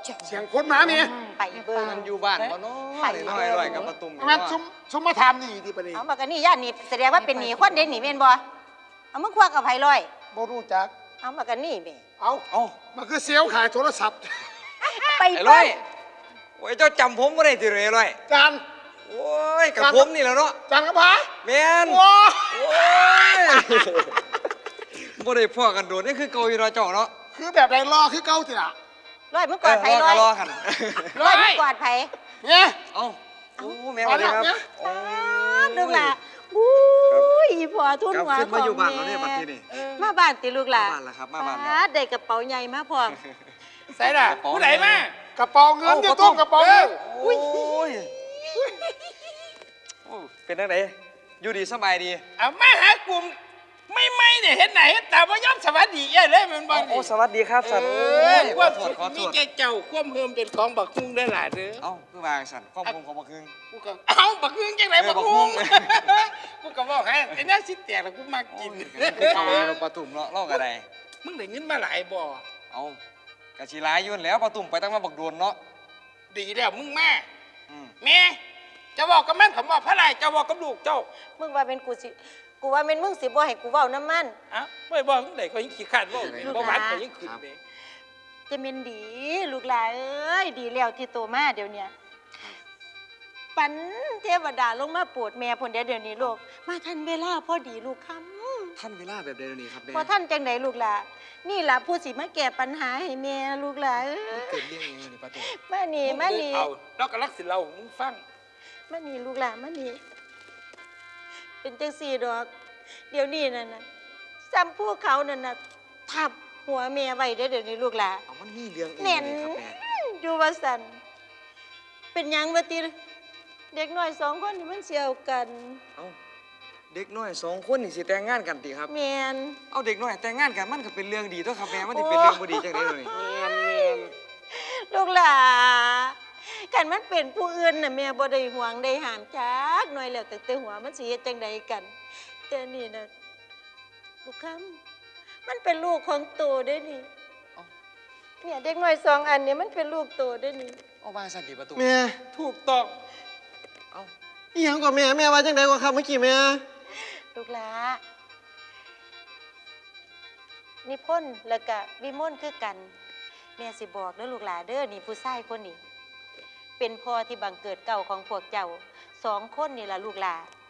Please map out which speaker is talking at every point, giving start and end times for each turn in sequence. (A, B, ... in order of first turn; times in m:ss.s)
0:00.2-0:01.2 A
0:00.8-0:02.1 B
0:01.8-0:04.6 C
0:02.9-0:03.9 B
0:04.2-0:06.0 A
0:05.9-0:08.4 B
0:07.2-0:07.8 C
0:09.1-0:10.1 B
0:10.3-0:10.9 A
0:11.2-0:12.0 B
0:12.2-0:14.3 A
0:12.5-0:12.8 C
0:14.8-0:15.8 B
0:15.3-0:15.8 C
0:16.6-0:18.2 C
0:18.3-0:18.6 A
0:19.1-0:20.6 C
0:19.7-0:20.1 A
0:20.7-0:21.3 A
0:21.4-0:24.2 C
0:21.8-0:22.7 A
0:25.0-0:27.1 C
0:27.3-0:28.7 A
0:29.3-0:30.3 B
0:29.6-0:31.2 C
0:31.1-0:31.6 D
0:31.2-0:32.1 B
0:32.4-0:32.8 A
0:32.9-0:36.1 C
0:34.0-0:34.6 A
0:34.8-0:43.2 B
0:38.1-0:39.6 C
0:39.7-0:40.0 D
0:40.7-0:41.8 C
0:43.9-0:45.1 D
0:44.2-0:45.0 C
0:45.4-0:46.9 A
0:45.8-0:46.4 C
0:46.0-0:47.8 D
0:47.0-0:48.1 C
0:50.0-0:52.2 C
0:52.4-0:53.3 D
0:53.9-1:01.9 D
0:56.7-0:59.4 C
1:01.8-1:03.6 C
1:03.7-1:09.8 D
1:05.0-1:06.1 C
1:08.5-1:10.8 C
1:11.2-1:12.4 D
1:12.7-1:13.0 C
1:13.6-1:15.6 C
1:16.3-1:17.2 D
1:17.7-1:17.9 C
1:18.0-1:18.4 D
1:19.0-1:21.1 D
1:21.4-1:24.4 B
1:24.5-1:27.6 D
1:26.1-1:27.4 C
1:26.4-1:27.0 B
1:28.5-1:31.9 B
1:33.5-1:38.8 B
1:38.8-1:40.1 C
1:39.9-1:44.8 B
1:44.3-1:45.5 C
1:45.4-1:46.7 B
1:46.0-1:48.2 D
1:48.9-1:50.0 B
1:51.6-1:52.5 B
1:53.1-1:53.8 B
1:54.4-1:58.2 B
1:58.3-1:59.8 C
1:59.0-2:01.0 B
2:02.1-2:02.9 B
2:03.7-2:05.8 B
2:06.9-2:08.9 C
2:08.9-2:09.6 B
2:09.7-2:13.2 C
2:11.7-2:21.9 B
2:13.7-2:14.0 C
2:22.5-2:23.1 B
2:24.2-2:24.8 B
2:25.4-2:27.1 B
2:28.4-2:30.8 B
2:31.0-2:31.9 C
2:31.7-2:32.2 E
2:32.3-2:32.9 D
2:34.5-2:36.6 E
2:37.3-2:38.0 B
2:40.8-2:42.9 B
2:43.6-2:45.8 B
2:46.8-2:50.5 B